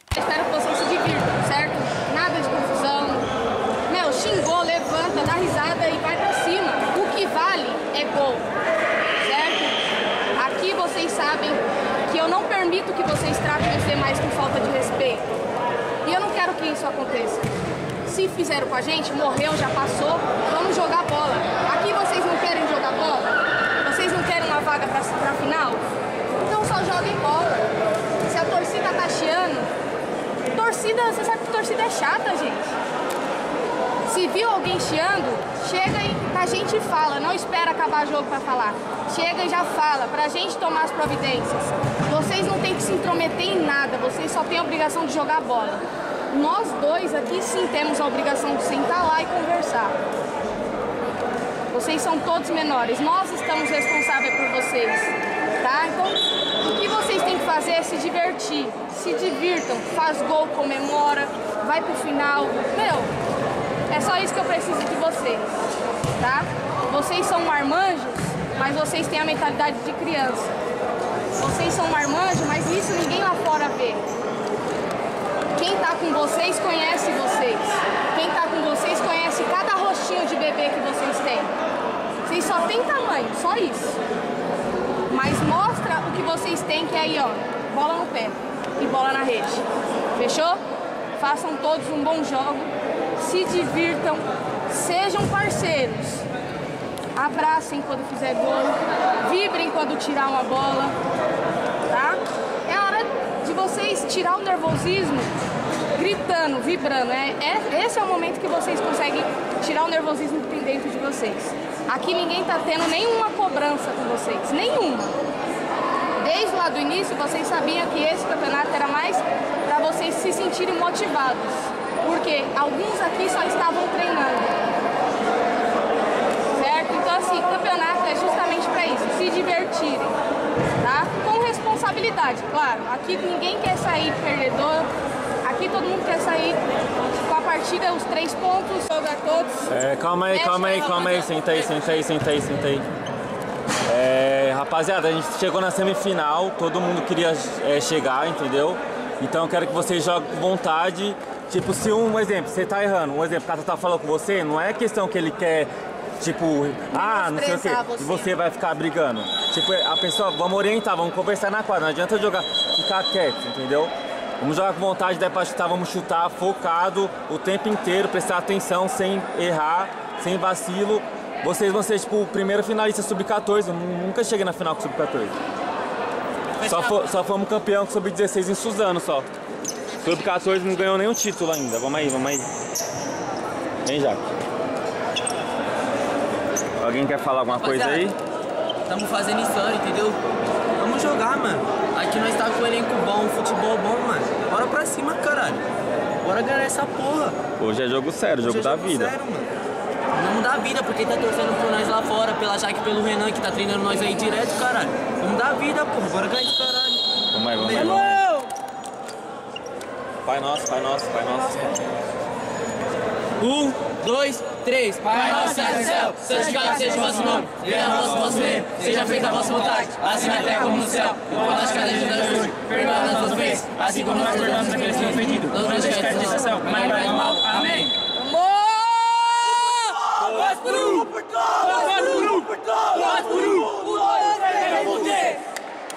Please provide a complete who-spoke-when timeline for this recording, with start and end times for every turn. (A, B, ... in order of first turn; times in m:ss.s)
0:00.1-0:03.3 A
0:03.9-0:08.5 A
0:09.2-0:09.8 A
0:10.4-0:15.3 A
0:16.0-0:17.5 A
0:18.0-0:25.8 A
0:26.4-0:27.7 A
0:28.3-0:29.7 A
0:30.5-0:32.8 A
0:34.1-0:50.0 A
0:51.7-1:03.1 A
1:03.9-1:05.6 A
1:06.2-1:10.5 A
1:11.4-1:14.1 A
1:15.6-1:21.5 A
1:22.3-1:24.0 A
1:25.1-1:30.6 A
1:31.2-1:36.3 A
1:37.2-1:41.0 A
1:41.9-1:45.3 A
1:46.0-1:55.2 A
1:56.2-2:04.6 A
2:06.6-2:10.2 A
2:10.8-2:14.9 A
2:15.4-2:16.6 A
2:17.2-2:19.7 A
2:19.7-2:22.9 B
2:20.3-2:21.0 A
2:23.9-2:55.4 B
2:36.9-2:38.4 A
2:56.6-2:59.3 B
3:00.0-3:02.5 B
3:03.8-3:04.2 B
3:06.8-3:08.2 B
3:07.6-3:08.1 C
3:08.9-3:10.2 C
3:10.8-3:15.6 C
3:16.2-3:17.4 C
3:17.6-3:19.2 B
3:18.4-3:19.5 C
3:20.2-3:27.0 C
3:27.3-3:28.3 B
3:27.6-3:28.2 C
3:30.2-3:31.8 B
3:33.4-3:47.9 C
3:50.5-3:51.0 C
3:51.5-3:55.4 C